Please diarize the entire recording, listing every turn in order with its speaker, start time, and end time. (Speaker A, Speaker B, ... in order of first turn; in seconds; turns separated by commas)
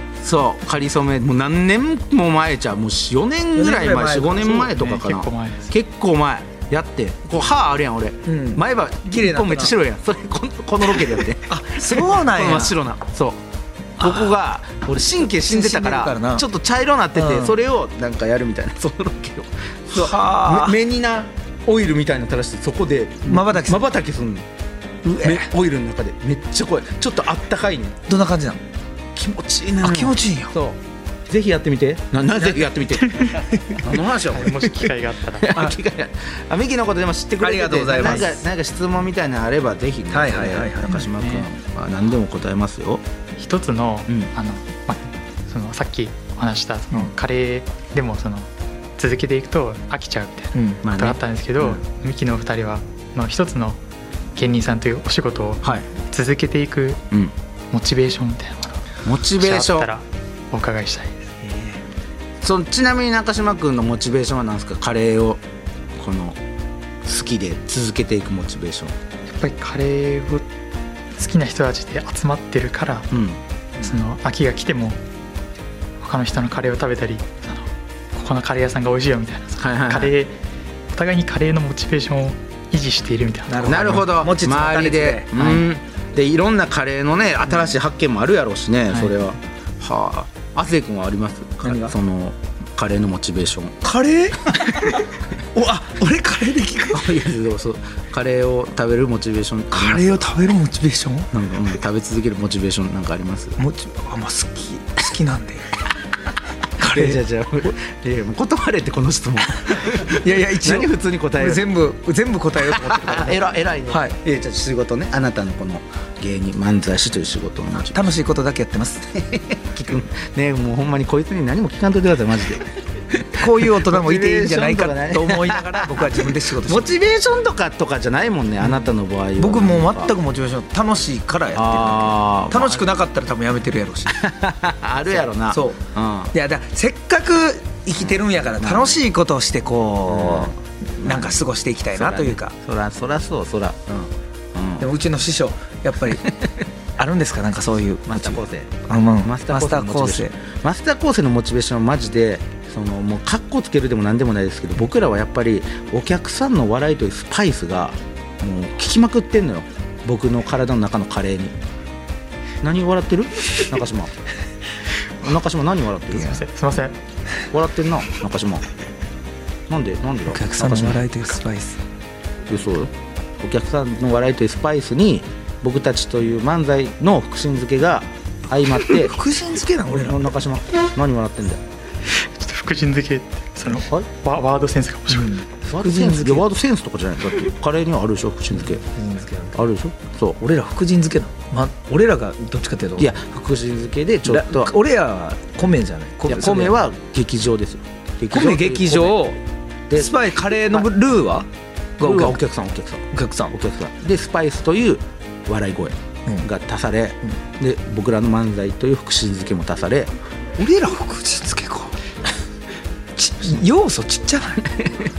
Speaker A: 0.2-13.4, Speaker B: 3.5-4.7, Speaker C: 4.7-5.7, Speaker B: 8.2-9.7, Speaker B: 11.5-12.8, Speaker B: 14.0-14.3, Speaker A: 14.0-24.5, Speaker B: 15.4-16.4, Speaker B: 17.1-17.6, Speaker B: 19.9-20.8, Speaker B: 23.2-23.9, Speaker B: 25.0-25.5, Speaker A: 25.2-28.0, Speaker B: 28.1-28.6, Speaker A: 29.1-34.7, Speaker B: 29.8-30.5, Speaker B: 32.4-32.7, Speaker C: 33.1-33.4, Speaker B: 33.3-33.8, Speaker C: 34.3-35.5, Speaker A: 35.4-43.0, Speaker B: 35.5-35.8, Speaker B: 37.4-38.4, Speaker B: 40.1-41.0, Speaker C: 41.0-41.5, Speaker C: 43.4-53.8, Speaker B: 50.5-50.8, Speaker A: 50.8-51.8, Speaker C: 54.4-57.0, Speaker C: 57.7-58.8, Speaker A: 59.0-59.9, Speaker C: 59.4-61.3, Speaker B: 61.4-61.8, Speaker A: 62.4-65.4, Speaker A: 65.9-66.4, Speaker A: 67.0-69.0, Speaker C: 69.3-70.5, Speaker C: 71.1-73.1, Speaker A: 73.1-73.4, Speaker C: 73.8-75.0, Speaker C: 76.0-80.4, Speaker A: 79.6-80.1, Speaker C: 80.9-84.0, Speaker B: 83.5-85.3, Speaker A: 83.6-93.8, Speaker C: 85.3-85.6, Speaker B: 91.6-91.9, Speaker B: 93.8-97.1, Speaker A: 96.9-100.2, Speaker B: 99.7-101.3, Speaker A: 101.3-103.6, Speaker B: 103.6-105.8, Speaker B: 106.8-107.2, Speaker A: 106.8-111.7, Speaker B: 109.7-114.1, Speaker A: 112.6-118.1, Speaker B: 117.9-119.0, Speaker A: 119.1-130.1, Speaker B: 123.4-126.9, Speaker B: 129.4-134.2, Speaker A: 131.5-132.9, Speaker A: 134.1-136.3, Speaker B: 135.1-135.8, Speaker B: 136.3-142.5, Speaker A: 138.0-139.0, Speaker A: 140.1-141.3, Speaker A: 141.9-144.9, Speaker B: 144.8-146.3, Speaker B: 147.0-150.3, Speaker A: 148.1-161.5, Speaker A: 162.6-164.1, Speaker A: 165.2-166.4, Speaker C: 166.2-166.9, Speaker A: 167.5-168.6, Speaker A: 169.7-171.1, Speaker B: 170.3-171.8, Speaker A: 172.5-179.1, Speaker B: 178.8-180.2, Speaker A: 179.9-181.6, Speaker C: 182.1-185.3, Speaker A: 183.7-184.1, Speaker B: 185.1-186.5, Speaker A: 185.6-188.8, Speaker B: 188.6-189.6, Speaker A: 189.5-190.4, Speaker B: 190.4-193.1, Speaker A: 193.0-194.7, Speaker B: 194.2-196.8, Speaker A: 196.2-199.3, Speaker B: 198.3-199.4, Speaker A: 199.9-200.9, Speaker B: 199.9-201.5, Speaker B: 202.0-202.4, Speaker A: 202.0-210.1, Speaker B: 203.1-203.6, Speaker B: 210.6-211.9, Speaker B: 213.2-214.8, Speaker A: 214.8-215.1